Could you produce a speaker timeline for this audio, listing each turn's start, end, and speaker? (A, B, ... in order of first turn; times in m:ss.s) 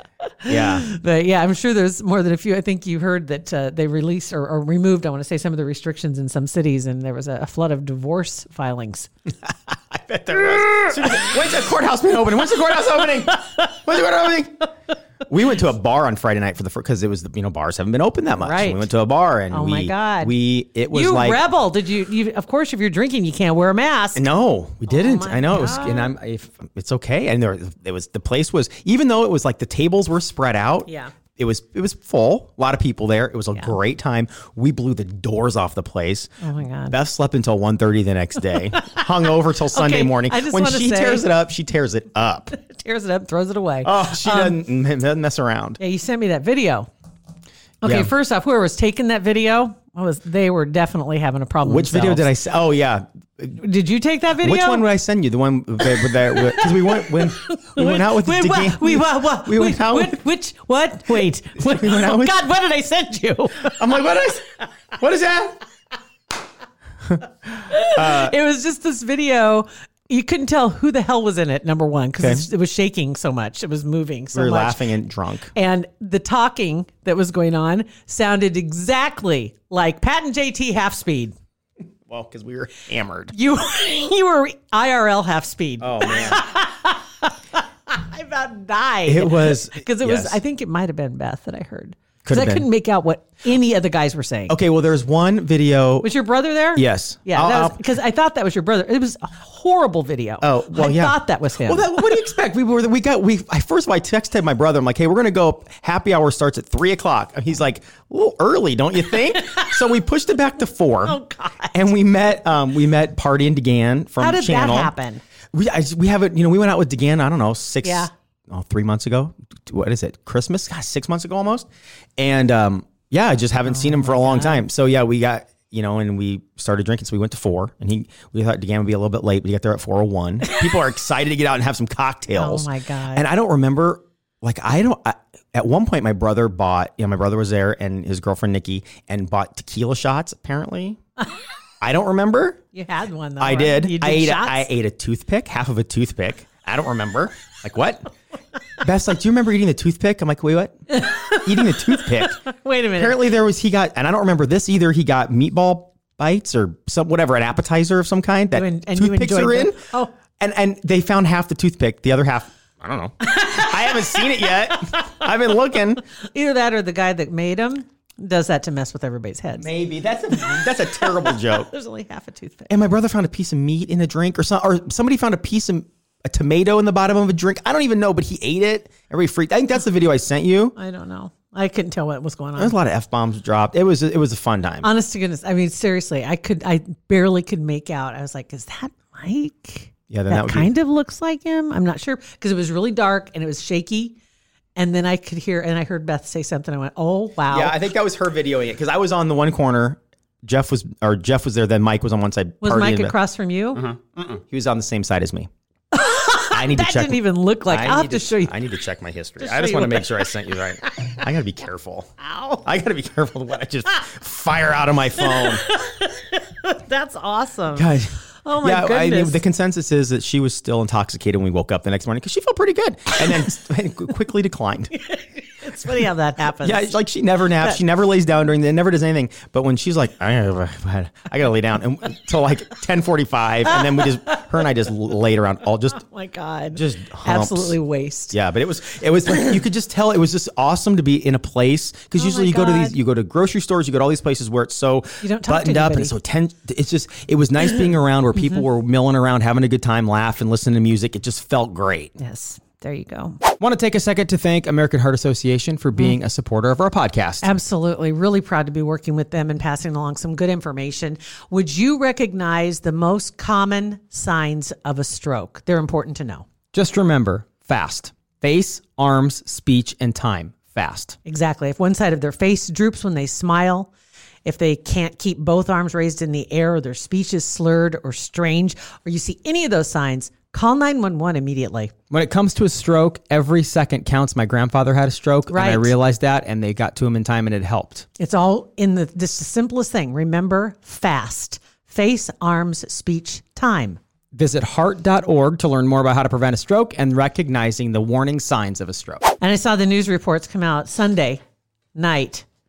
0:00.4-0:00.8 A
0:00.5-0:09.1 B
0:09.9-0:14.7 A
0:13.3-0:13.7 B
0:15.3-0:21.4 A
0:18.4-0:18.9 B
0:19.5-0:20.3 B
0:20.9-0:24.2 B
0:24.2-0:36.3 A
0:24.9-0:26.1 B
0:30.9-0:31.1 B
0:36.4-0:37.0 B
0:36.9-0:42.5 A
0:38.6-0:39.0 B
0:39.7-0:41.3 B
0:42.5-0:44.6 B
0:43.8-0:45.8 A
0:45.8-0:46.9 B
0:47.8-0:52.3 B
0:47.8-0:48.1 A
0:51.6-0:53.6 A
0:53.5-0:54.9 B
0:54.4-1:00.2 A
0:55.8-1:04.0 B
1:01.6-1:02.4 A
1:03.6-1:05.6 A
1:07.6-1:14.9 B
1:07.8-1:08.3 A
1:14.3-1:15.5 A
1:15.5-1:21.3 B
1:22.1-1:23.3 A
1:23.3-1:34.6 B
1:25.8-1:26.5 A
1:29.0-1:30.4 A
1:32.2-1:32.6 A
1:34.5-1:36.1 A
1:36.0-1:42.0 B
1:36.8-1:37.8 A
1:40.4-1:51.2 A
1:51.0-1:51.9 B
1:51.7-1:54.9 A
1:54.2-1:55.2 B
1:55.5-2:01.7 A
1:57.8-1:58.1 B
2:02.2-2:21.0 A
2:03.7-2:04.7 B
2:12.3-2:13.2 B
2:21.8-2:22.6 A
2:22.7-2:24.7 B
2:23.4-2:28.1 A
2:28.8-2:30.8 A
2:30.9-2:33.3 B
2:31.4-2:32.4 A
2:33.0-2:39.8 A
2:38.5-2:40.1 B
2:40.4-2:46.0 A
2:43.3-2:45.1 B
2:46.3-2:49.7 B
2:49.6-2:51.7 A
2:50.3-2:52.7 B
2:52.7-3:00.7 A
3:00.8-3:02.8 B
3:02.6-3:04.9 A
3:04.8-3:14.2 B
3:10.1-3:10.7 A
3:14.8-3:17.8 B
3:17.5-3:23.1 A
3:22.6-3:23.9 B
3:23.8-3:25.5 A
3:25.9-3:28.5 B
3:26.5-3:32.1 A
3:29.4-3:31.2 B
3:32.2-3:32.6 B
3:32.6-3:35.6 A
3:35.2-3:39.4 B
3:37.7-3:44.9 A
3:45.0-3:47.0 B
3:46.6-3:56.0 A
3:53.7-3:54.4 B
3:55.9-3:58.4 B
3:56.7-3:57.8 A
3:58.3-4:12.1 A
4:02.1-4:02.9 B
4:05.2-4:06.1 B
4:12.2-4:13.4 B
4:13.6-4:17.5 A
4:17.4-4:26.4 B
4:26.7-4:31.2 A
4:31.2-4:33.9 B
4:34.4-4:41.9 B
4:42.1-4:48.1 A
4:45.5-4:45.9 B
4:48.2-4:54.0 B
4:54.3-4:59.3 A
4:59.4-5:01.4 B
5:01.9-5:02.4 B